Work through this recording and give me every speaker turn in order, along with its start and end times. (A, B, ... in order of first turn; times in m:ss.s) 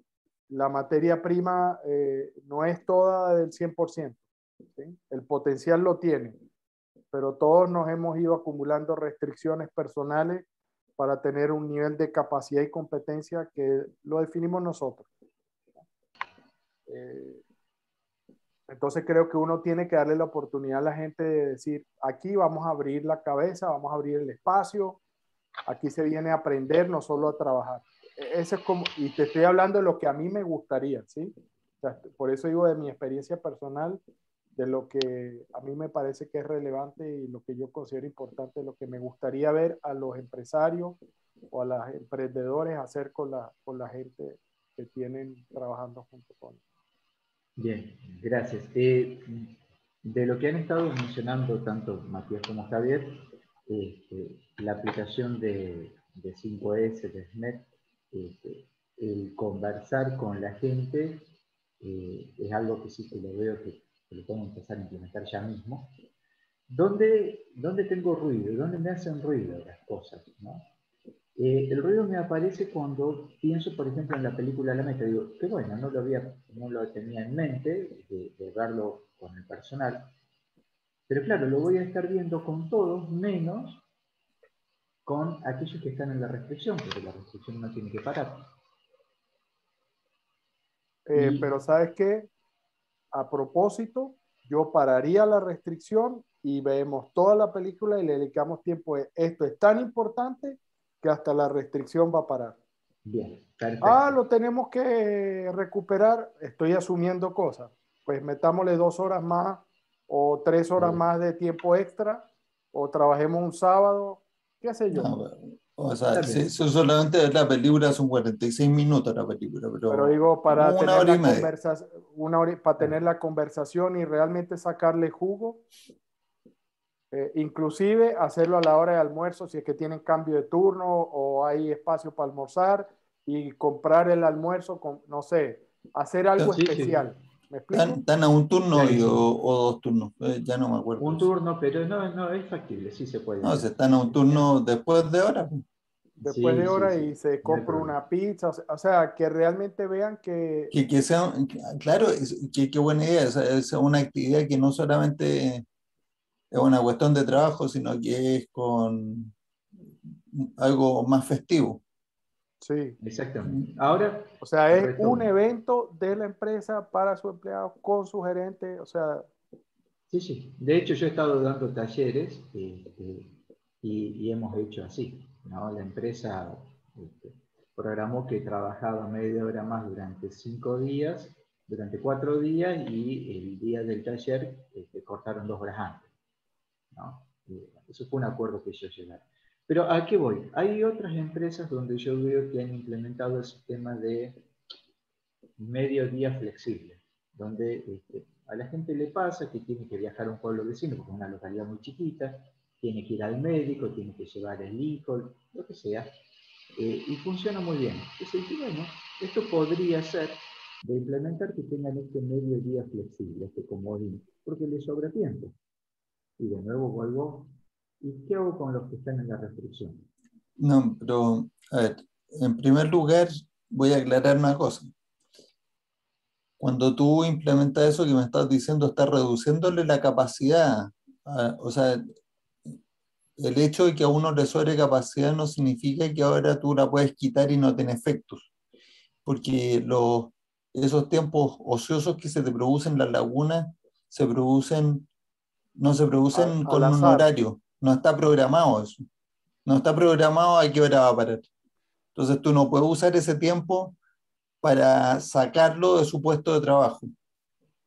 0:00.5-0:04.2 A
0:04.8-0:06.4 A
0:07.1-0:10.5 A
0:11.0-0:15.1 A
0:16.9-0:17.4 A
0:18.7-0:25.0 A
0:25.7-0:34.0 A
0:34.6-0:41.0 A
0:41.5-0:46.6 A
0:47.6-0:49.5 B
0:50.0-1:01.3 B
1:01.8-1:06.0 B
1:06.7-1:10.7 B
1:11.4-1:20.1 B
1:21.1-1:23.8 B
1:25.0-1:28.5 B
1:31.1-1:32.3 A
1:31.2-1:31.5 B
1:33.1-1:42.6 A
1:43.0-1:44.2 B
1:43.8-1:55.1 A
1:50.8-1:51.0 B
1:54.9-2:01.5 C
1:56.1-1:56.5 B
1:59.9-2:05.6 A
2:07.1-2:18.0 A
2:16.5-2:17.0 B
2:17.7-2:21.3 C
2:18.7-2:19.3 B
2:21.0-2:24.5 B
2:23.4-2:25.6 C
2:26.2-2:28.0 B
2:26.2-2:30.7 A
2:30.7-2:35.6 C
2:36.5-2:39.3 C
2:40.3-2:41.8 C
2:42.6-2:43.0 A
2:43.0-2:45.3 B
2:44.4-2:49.3 A
2:50.1-3:06.1 B
3:06.9-3:14.4 B
3:15.6-3:26.1 B
3:26.8-3:35.6 B
3:36.4-3:40.0 B
3:40.6-3:44.9 C
3:46.6-3:52.0 C
3:53.4-3:58.5 C
3:59.2-4:05.1 C
4:05.8-4:09.0 C
4:06.3-4:07.3 A
4:09.7-4:11.5 C
4:12.2-4:14.0 C
4:14.6-4:17.1 C